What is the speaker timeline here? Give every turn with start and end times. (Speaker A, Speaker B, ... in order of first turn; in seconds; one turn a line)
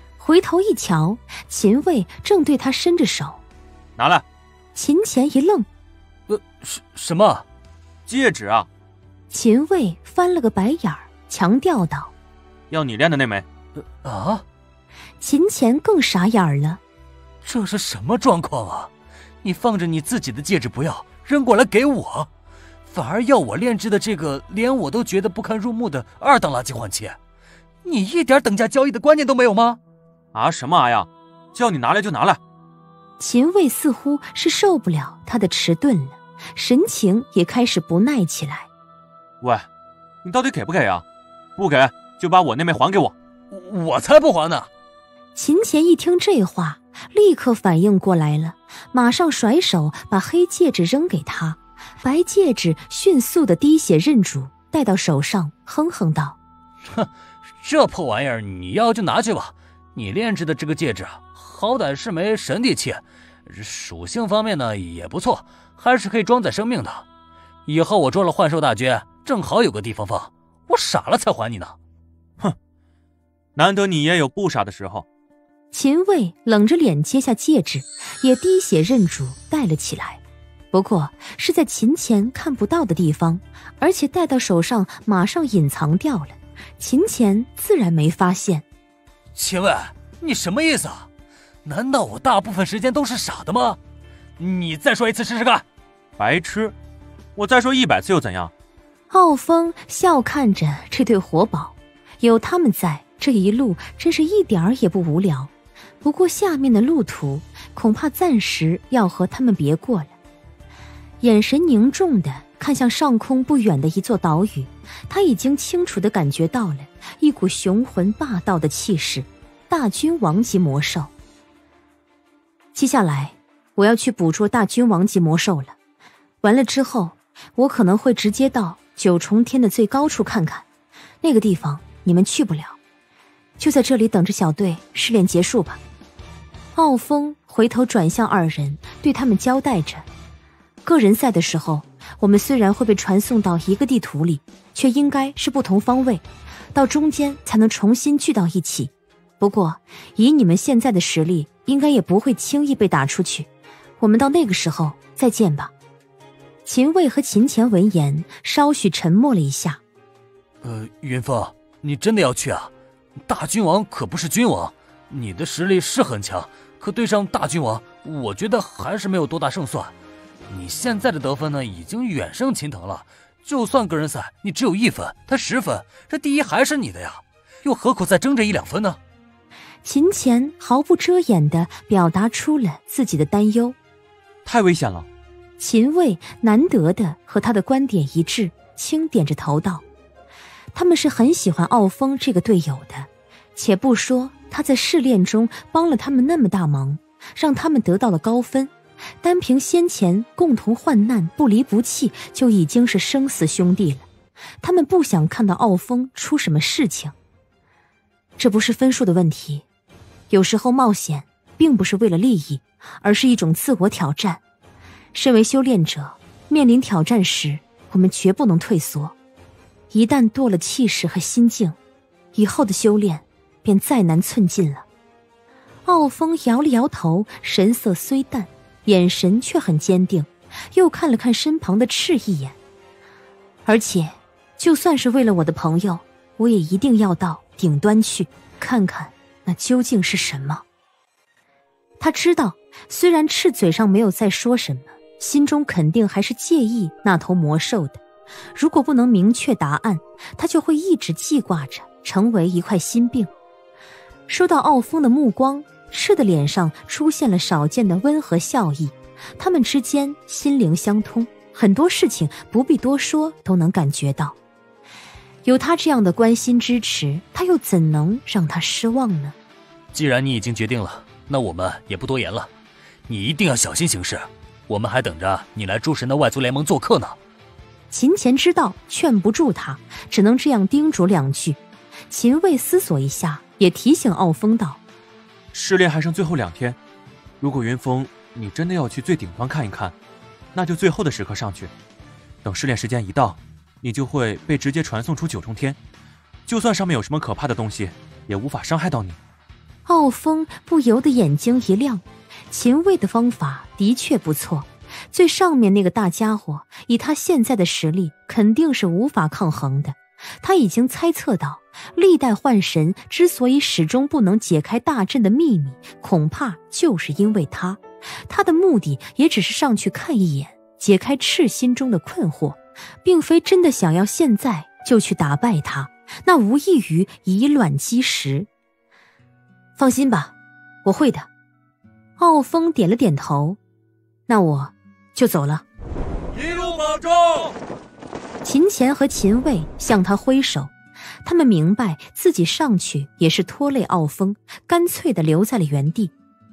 Speaker A: 0.2-3.4
Speaker B: 4.0-4.2
Speaker A: 4.8-5.7
Speaker C: 6.3-7.5
Speaker B: 8.1-8.7
Speaker A: 9.3-12.1
Speaker B: 12.7-13.5
Speaker C: 14.0-14.4
Speaker A: 15.2-16.8
Speaker C: 17.4-18.9
Speaker C: 19.4-22.3
Speaker C: 22.9-27.2
Speaker C: 27.9-29.8
Speaker B: 30.3-32.4
Speaker A: 33.2-38.7
Speaker B: 39.4-39.7
Speaker B: 40.2-41.0
Speaker B: 41.6-43.1
Speaker C: 43.5-44.7
Speaker A: 45.4-56.4
Speaker C: 57.6-67.0
Speaker C: 67.7-71.8
Speaker B: 73.5-75.1
Speaker A: 75.7-80.2
Speaker A: 80.7-88.7
Speaker C: 89.3-91.1
Speaker C: 91.6-93.8
Speaker C: 94.4-95.7
Speaker B: 96.2-96.8
Speaker B: 97.4-98.5
Speaker A: 99.1-105.5
Speaker A: 106.0-110.2
Speaker A: 111.2-121.1
Speaker A: 122.7-125.8
Speaker A: 126.4-130.7
Speaker A: 131.2-132.8
Speaker A: 133.6-135.8
Speaker A: 136.8-140.1
Speaker A: 140.8-153.5
Speaker A: 154.0-155.7
Speaker A: 156.7-159.8
Speaker C: 160.6-162.7
Speaker C: 163.3-169.9
Speaker C: 170.5-179.0
Speaker A: 179.8-183.8
Speaker B: 184.4-185.1
Speaker A: 185.6-189.8
Speaker A: 190.7-204.1
Speaker A: 204.6-207.1
Speaker A: 208.4-209.7
Speaker A: 210.3-214.4
Speaker A: 215.1-219.2
Speaker A: 219.9-221.8
Speaker A: 222.3-224.9
Speaker A: 225.9-232.6
Speaker A: 233.7-240.6
Speaker A: 242.0-248.0
Speaker A: 248.6-253.3
Speaker A: 254.3-264.4
Speaker A: 265.4-269.4
Speaker C: 269.9-272.5
Speaker C: 273.1-277.2
Speaker A: 277.9-284.8
Speaker B: 285.5-286.8
Speaker B: 287.4-290.0
Speaker B: 290.5-291.7
Speaker B: 292.4-295.8
Speaker B: 296.5-299.2
Speaker A: 299.9-328.5
Speaker A: 329.8-331.3
Speaker A: 332.2-333.6
Speaker A: 334.3-335.6
Speaker B: 336.3-337.5
Speaker A: 338.4-346.1